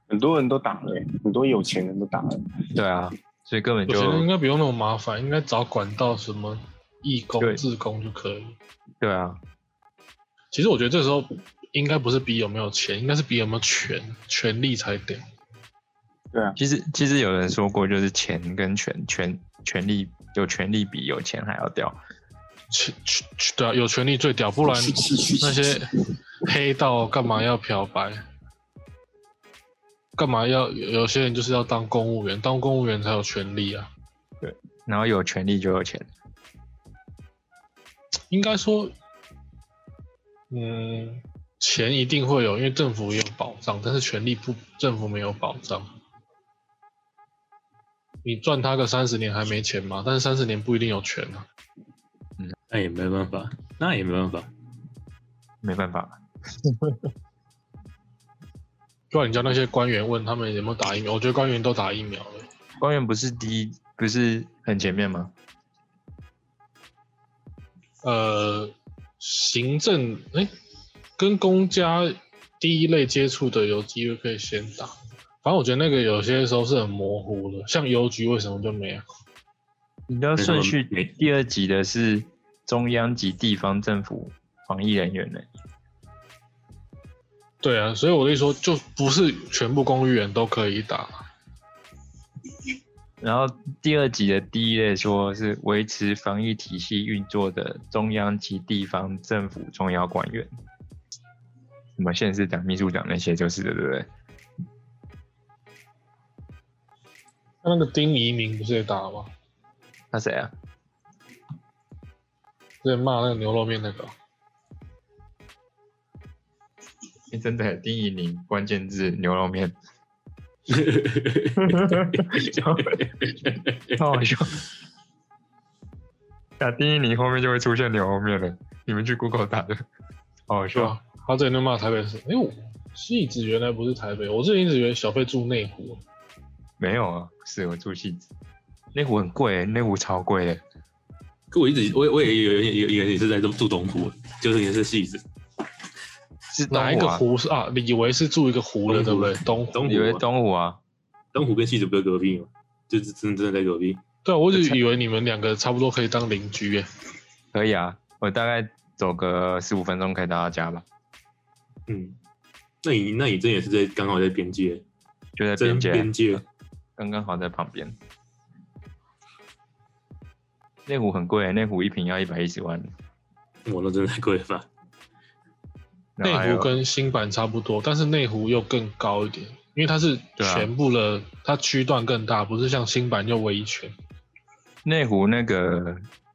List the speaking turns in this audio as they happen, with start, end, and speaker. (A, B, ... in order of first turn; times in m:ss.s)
0:00.1-0:02.6 A
0:02.7-0:04.3 B
0:03.9-0:08.6 C
0:09.0-0:09.4 B
0:10.5-0:15.2 C
0:16.6-0:22.0 B
0:22.7-0:25.9 C
0:24.6-0:25.8 A
0:26.4-0:28.2 C
0:30.2-0:33.9 C
0:34.4-0:36.0 B
0:38.3-0:38.9 C
0:40.5-0:45.9 C
0:48.2-0:51.4 C
0:52.7-0:54.5 D
0:55.6-0:57.1 B
0:59.1-1:02.5 C
1:02.8-1:05.3 B
1:08.0-1:10.5 C
1:11.2-1:19.0 C
1:20.1-1:25.4 B
1:20.4-1:21.1 D
1:27.6-1:31.2 C
1:33.2-1:40.5 B
1:42.0-1:44.1 B
1:47.6-1:49.3 C
1:50.1-1:50.5 B
1:52.8-1:54.1 C
1:57.3-1:59.7 B
2:00.7-2:04.0 D
2:01.6-2:03.0 B
2:04.0-2:04.6 B
2:06.6-2:09.8 B
2:10.5-2:11.0 B
2:10.7-2:16.0 C
2:16.8-2:18.3 B
2:18.9-2:20.6 B
2:21.5-2:25.2 D
2:26.5-2:27.2 B
2:26.7-2:29.8 C
2:28.9-2:30.2 D
2:29.8-2:30.8 B
2:31.3-2:34.0 D
2:34.2-2:36.8 C
2:34.5-2:34.8 B
2:37.5-2:40.8 B
2:41.9-2:42.2 D
2:42.8-2:44.8 D
2:45.4-2:46.4 B
2:45.6-2:46.4 D
2:47.0-2:47.9 B
2:50.8-2:52.9 B
2:53.6-2:54.7 D
2:56.2-2:56.7 B
2:56.2-3:03.9 C
3:00.4-3:00.7 B
3:04.8-3:06.0 B